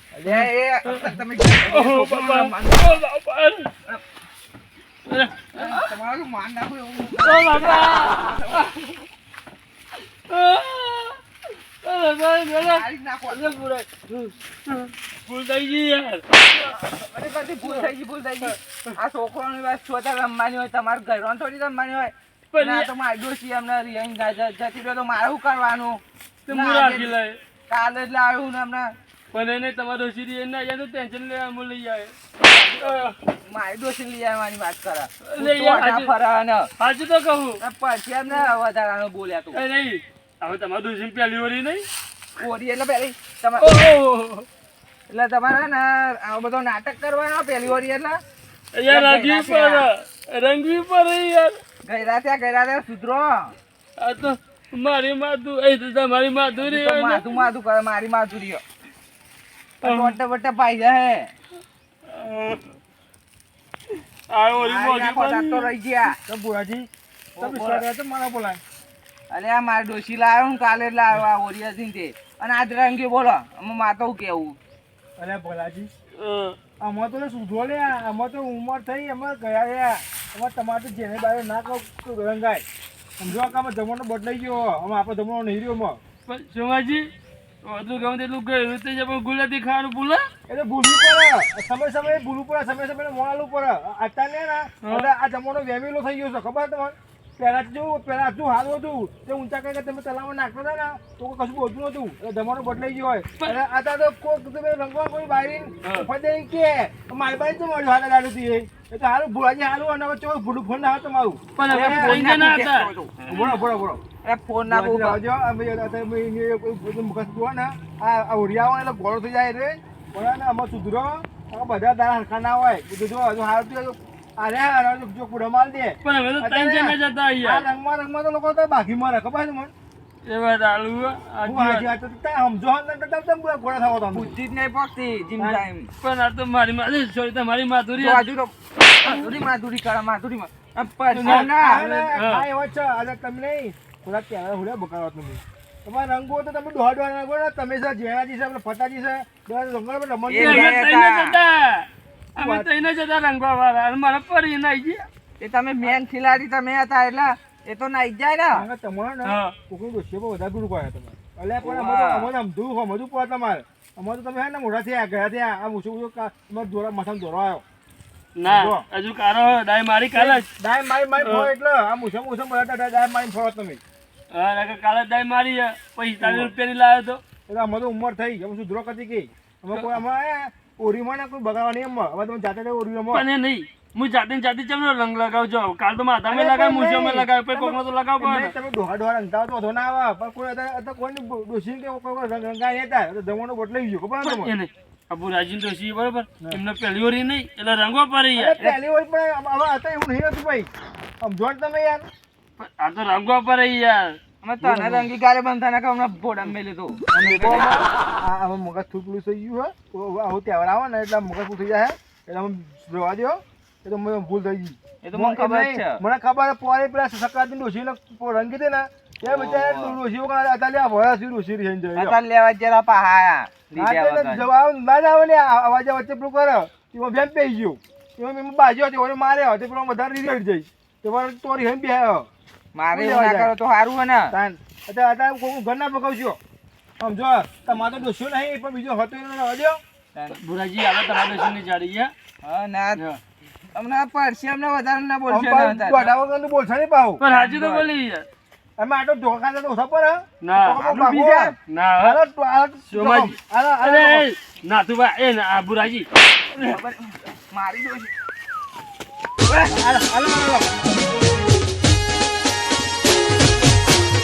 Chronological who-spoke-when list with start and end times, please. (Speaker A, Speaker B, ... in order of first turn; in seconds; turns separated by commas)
Speaker A: 0.1-3.0, Speaker B: 1.7-3.7, Speaker B: 5.0-5.8, Speaker A: 5.5-8.7, Speaker B: 7.2-8.8, Speaker B: 10.3-11.2, Speaker B: 11.8-16.2, Speaker A: 12.6-13.6, Speaker A: 16.5-27.1, Speaker B: 22.5-22.9, Speaker B: 26.5-27.3, Speaker A: 27.7-28.9, Speaker B: 29.3-32.1, Speaker A: 32.4-36.7, Speaker B: 32.8-33.1, Speaker B: 35.2-36.1, Speaker B: 36.8-37.6, Speaker A: 37.6-39.6, Speaker B: 39.5-41.9, Speaker A: 42.4-43.8, Speaker B: 43.6-44.5, Speaker A: 45.1-48.2, Speaker B: 48.8-51.6, Speaker A: 48.9-49.9, Speaker A: 51.9-53.5, Speaker B: 54.0-57.2, Speaker A: 56.6-58.6, Speaker A: 59.8-61.3, Speaker B: 59.8-60.2, Speaker B: 62.1-62.6, Speaker B: 64.3-65.7, Speaker A: 64.5-66.2, Speaker C: 66.3-66.9, Speaker A: 67.4-67.8, Speaker C: 67.4-68.6, Speaker A: 69.3-74.6, Speaker C: 75.2-75.9, Speaker B: 76.2-76.5, Speaker C: 76.8-82.6, Speaker C: 83.2-86.0, Speaker B: 86.3-87.1, Speaker B: 87.6-90.2, Speaker C: 90.5-112.3, Speaker B: 111.6-113.6, Speaker A: 111.7-113.4, Speaker C: 113.3-114.0, Speaker A: 114.2-115.2, Speaker C: 114.7-129.7, Speaker B: 126.0-127.7, Speaker B: 130.3-131.9, Speaker C: 131.4-134.4, Speaker A: 134.1-135.9, Speaker B: 136.0-138.2, Speaker A: 137.9-142.1, Speaker C: 141.1-150.8, Speaker B: 141.2-141.5, Speaker B: 142.1-142.4, Speaker A: 150.3-151.3, Speaker B: 150.3-155.1, Speaker C: 152.4-152.8, Speaker A: 155.4-158.7, Speaker C: 158.5-167.6, Speaker B: 159.2-159.5, Speaker A: 161.6-162.3, Speaker B: 168.4-170.5, Speaker C: 168.4-168.8, Speaker C: 170.1-173.8, Speaker B: 171.2-171.5, Speaker B: 174.3-177.2, Speaker C: 176.2-176.5, Speaker C: 177.5-183.2, Speaker B: 183.1-188.5, Speaker C: 186.2-194.5, Speaker B: 194.2-198.8, Speaker C: 198.3-200.7, Speaker C: 201.2-202.0, Speaker B: 202.6-204.2, Speaker A: 204.4-207.9, Speaker C: 204.6-205.1, Speaker C: 207.1-222.2, Speaker A: 215.0-216.0, Speaker A: 219.2-220.0, Speaker A: 221.9-224.5, Speaker C: 223.8-232.3, Speaker A: 232.7-234.3, Speaker C: 232.9-233.5, Speaker C: 234.3-236.4, Speaker C: 237.0-239.8, Speaker B: 240.4-242.1, Speaker A: 242.4-243.0, Speaker A: 243.7-246.1, Speaker C: 245.3-247.2, Speaker B: 247.2-248.2, Speaker A: 247.3-247.9, Speaker C: 248.8-254.3, Speaker B: 250.4-252.2, Speaker B: 252.9-256.1, Speaker A: 256.5-258.1, Speaker A: 259.5-259.8